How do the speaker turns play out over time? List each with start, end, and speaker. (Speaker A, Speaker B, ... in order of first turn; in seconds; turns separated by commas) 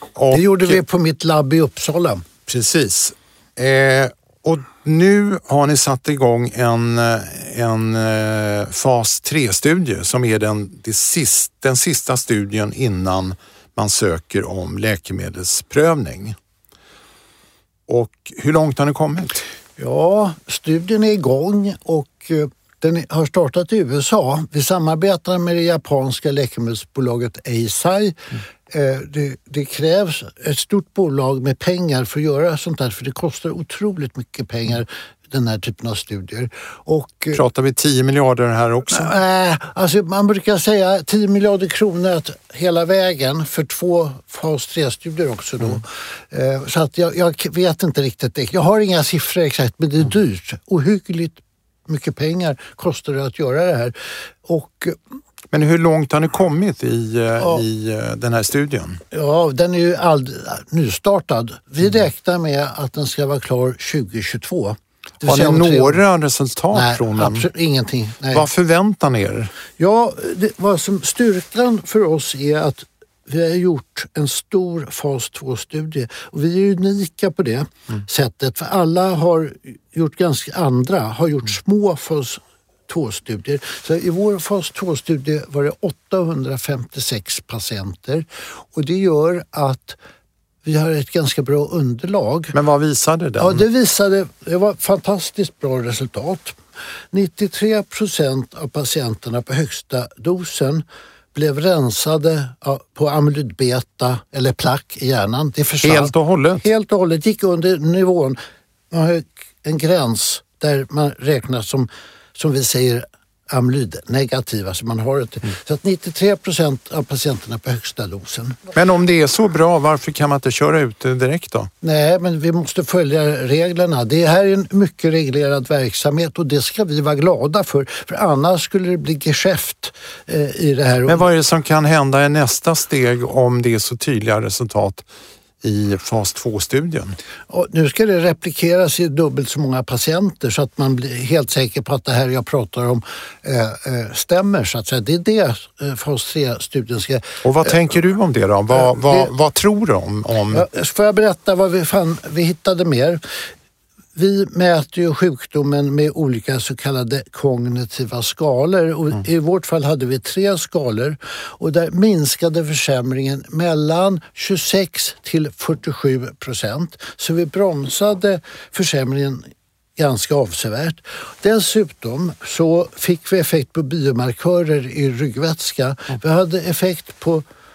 Speaker A: 0.2-0.8, Speaker B: 0.3-2.2, Speaker A: 2.5-16.4, Speaker A: 17.9-19.4, Speaker B: 19.8-37.4, Speaker A: 37.3-39.1, Speaker B: 38.9-55.0, Speaker A: 55.5-59.0, Speaker B: 57.4-57.6, Speaker B: 59.1-66.0, Speaker A: 65.2-67.5, Speaker B: 66.7-68.5, Speaker A: 68.3-69.5, Speaker B: 69.8-90.0, Speaker B: 90.6-92.5, Speaker A: 92.5-93.6, Speaker B: 93.4-96.6, Speaker B: 97.1-108.4, Speaker A: 105.8-106.7, Speaker B: 108.9-118.6, Speaker A: 118.7-121.7, Speaker B: 121.8-131.2, Speaker A: 131.1-135.0, Speaker A: 135.6-137.2, Speaker B: 137.5-147.8, Speaker A: 147.4-150.7, Speaker B: 148.8-149.3, Speaker B: 150.5-153.2, Speaker B: 154.2-177.4